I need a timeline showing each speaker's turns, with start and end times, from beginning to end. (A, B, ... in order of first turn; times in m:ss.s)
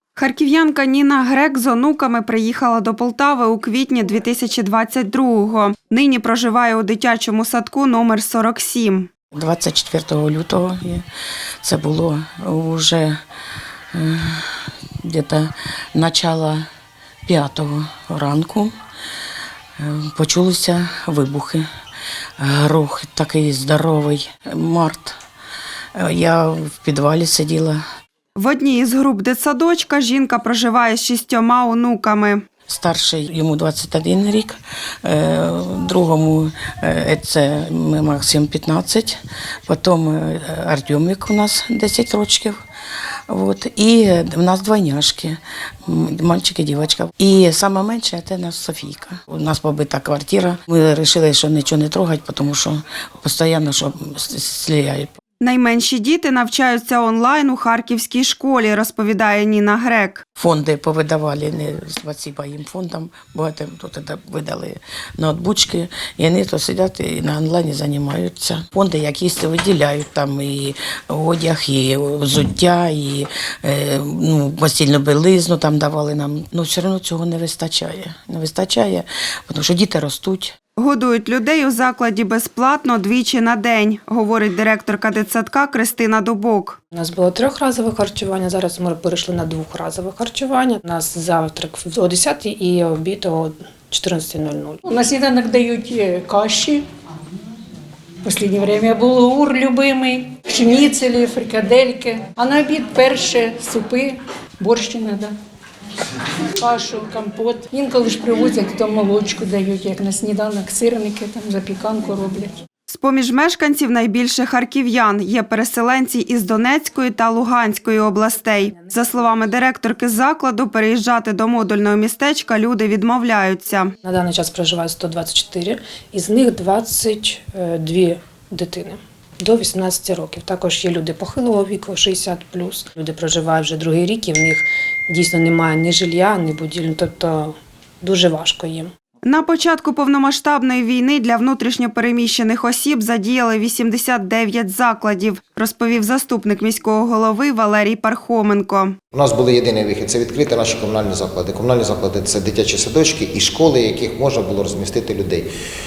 0:00.2-0:09.1 A
0:09.4-0:11.0 B
0:11.6-0:13.2 B
0:13.9-0:16.7 B
0:17.3-0:18.8 B
0:19.8-0:21.7 B
0:22.4-0:25.2 B
0:26.0-0:27.8 B
0:28.4-0:32.4 A
0:32.7-0:42.6 B
0:43.3-0:55.1 B
0:55.4-1:00.2 A
1:00.4-1:20.5 B
1:20.8-1:26.8 A
1:26.9-1:34.8 C
1:34.8-1:36.8 D
1:38.2-1:45.3 D
1:46.6-1:52.5 D
1:52.9-2:03.9 A
2:04.0-2:18.9 C
2:19.2-2:29.0 A
2:29.1-2:35.5 E